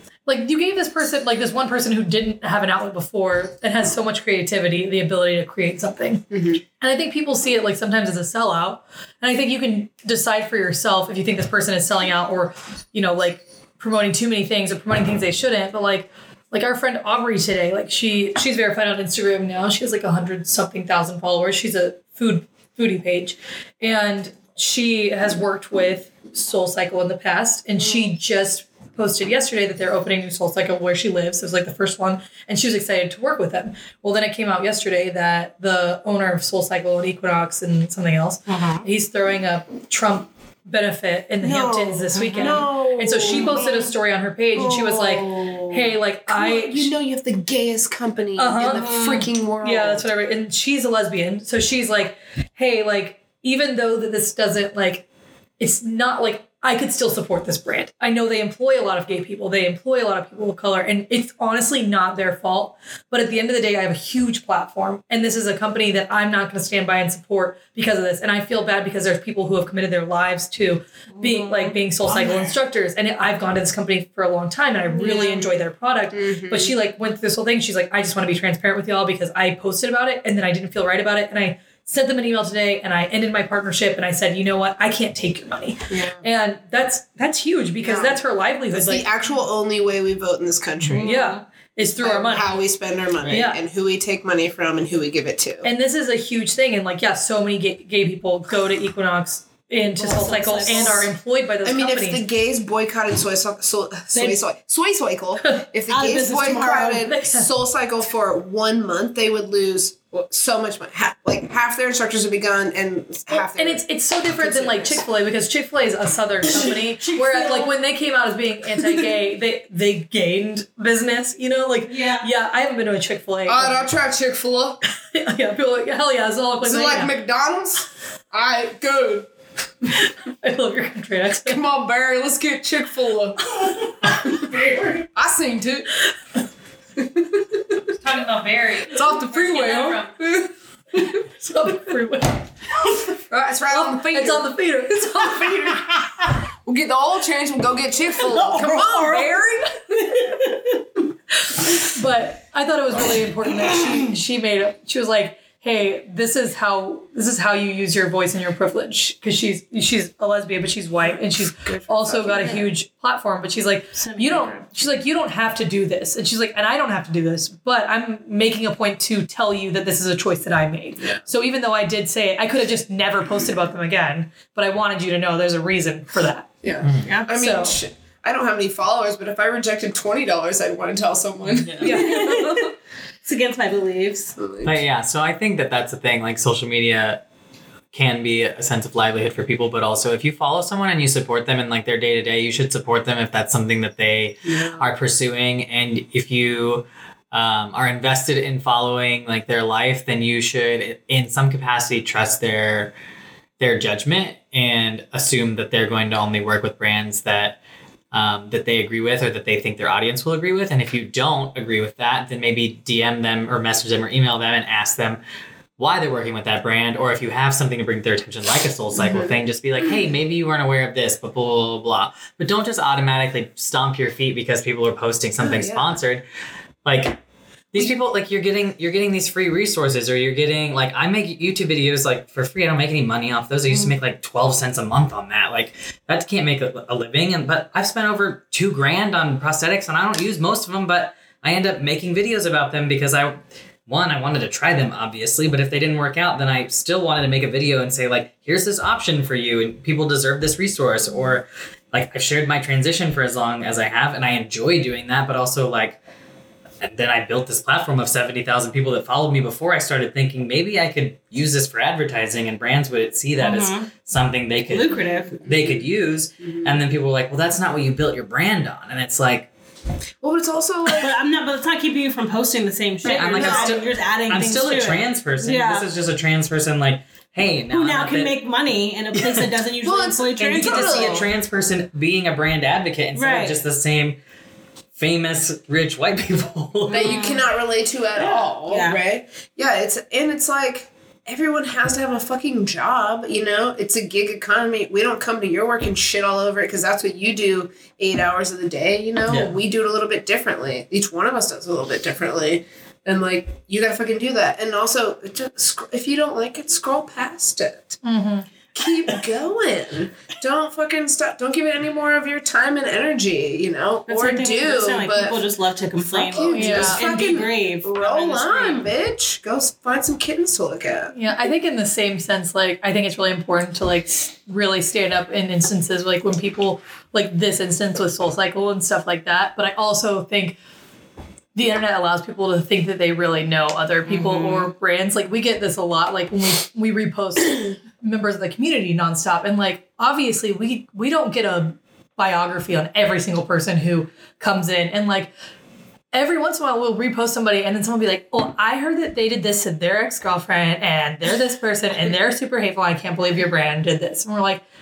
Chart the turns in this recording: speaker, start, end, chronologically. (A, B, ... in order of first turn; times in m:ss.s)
0:00.2-0:06.2 A
0:06.3-0:06.6 B
0:06.8-0:46.9 A
0:38.5-0:38.9 C
0:41.4-0:43.9 B
0:42.1-0:43.6 C
0:44.5-0:50.1 B
0:48.4-0:55.0 A
0:48.7-0:49.3 C
0:55.6-1:29.1 A
1:11.1-1:12.5 C
1:14.9-1:15.5 B
1:16.1-1:16.7 B
1:25.9-1:26.2 B
1:27.8-1:31.2 B
1:30.8-1:31.4 C
1:31.0-1:32.5 A
1:31.8-1:35.7 B
1:33.2-1:33.6 A
1:35.6-1:42.2 A
1:39.9-1:41.1 C
1:40.6-1:41.1 B
1:41.6-1:55.0 B
1:44.1-1:44.4 C
1:45.9-1:47.1 C
1:47.0-1:47.5 A
1:53.3-2:03.9 A
1:56.6-1:57.7 C
2:01.8-2:02.3 C
2:03.5-2:04.8 B
2:05.0-2:07.1 A
2:06.6-2:09.3 B
2:10.4-2:11.6 A
2:11.4-2:13.5 B
2:13.6-2:14.8 A
2:14.2-2:14.6 B
2:15.1-2:15.9 B
2:17.0-2:17.9 B
2:17.9-2:20.1 A
2:18.8-2:21.1 B
2:21.0-2:22.5 A
2:23.2-2:25.9 B
2:23.7-2:25.8 A
2:26.6-2:30.2 B
2:28.2-2:29.4 C
2:30.1-2:30.8 C
2:31.5-2:56.5 A
2:41.6-2:42.7 B
2:44.0-2:44.6 C
2:56.6-3:02.2 B
2:56.8-2:57.1 D
2:57.0-2:57.3 C
2:57.3-2:57.7 A
3:01.4-3:02.3 D
3:01.8-3:02.3 A
3:01.8-3:02.7 C
3:03.2-3:04.3 C
3:04.4-3:04.8 B
3:04.6-3:07.2 D
3:07.9-3:22.9 D
3:14.4-3:14.8 B
3:23.6-3:27.6 D
3:28.1-3:35.2 D
3:35.8-3:46.2 D
3:39.0-3:39.3 B
3:45.4-3:46.0 B
3:46.8-3:47.2 D
3:47.7-4:16.0 D
4:16.8-4:29.5 D
4:23.4-4:23.9 C
4:24.7-4:25.5 C
4:25.5-4:25.8 B
4:26.4-4:26.7 B
4:30.2-4:31.1 B
4:30.9-4:35.9 C
4:33.0-4:38.3 D
4:33.3-4:33.8 B
4:37.7-4:41.2 C
4:39.1-4:39.5 D
4:39.8-4:41.3 B
4:40.5-4:44.2 D
4:43.1-4:43.6 C
4:45.0-4:47.2 D
4:46.9-4:47.4 C
4:46.9-5:08.0 B
4:48.2-4:49.0 C
4:59.3-4:59.6 D
5:08.0-5:08.5 A
5:08.7-5:15.5 B
5:14.1-5:18.9 C
5:16.0-5:21.1 B
5:16.4-5:17.0 A
5:21.1-5:30.6 A
5:31.5-5:45.3 A
5:34.1-5:34.7 C
5:46.1-5:54.6 A